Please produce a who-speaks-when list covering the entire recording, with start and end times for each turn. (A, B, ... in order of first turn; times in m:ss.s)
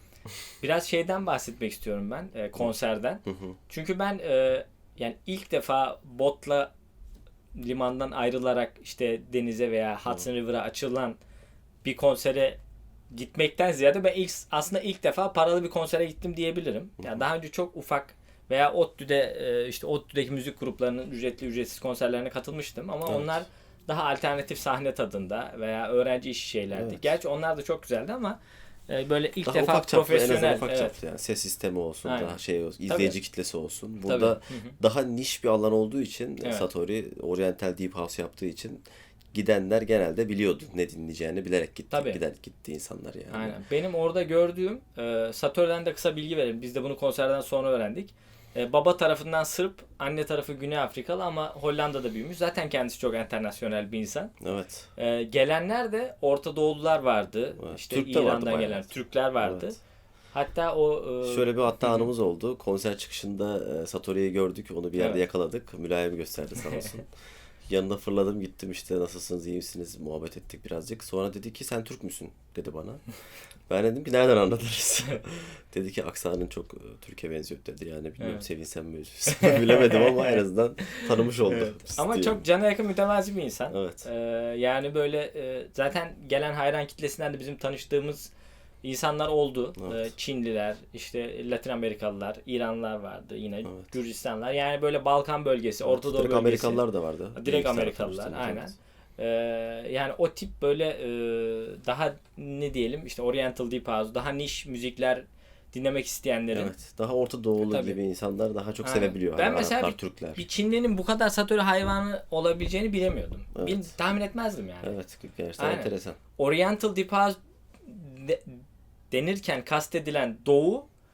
0:00.6-0:06.7 A
0:03.3-0:03.6 B
0:07.6-0:11.2 A
0:11.8-0:12.6 A
0:13.1-0:31.0 A
0:23.1-0:23.4 B
0:26.7-0:27.1 B
0:29.4-0:43.6 B
0:32.0-0:33.2 A
0:34.0-0:34.8 A
0:41.9-0:42.2 A
0:43.3-0:54.3 A
0:54.4-0:54.9 B
0:55.0-0:59.8 A
0:57.6-0:59.8 B
1:00.3-1:02.1 A
1:01.2-1:07.1 B
1:05.0-1:05.2 A
1:07.7-1:13.0 B
1:13.7-1:22.4 B
1:18.2-1:18.5 A
1:19.3-1:28.3 A
1:23.7-1:24.1 B
1:28.8-1:46.8 A
1:35.8-1:38.7 B
1:46.5-1:50.4 B
1:47.7-1:48.0 A
1:48.8-1:55.0 A
1:53.6-1:53.9 B
1:54.8-1:56.2 B
1:55.6-2:00.9 A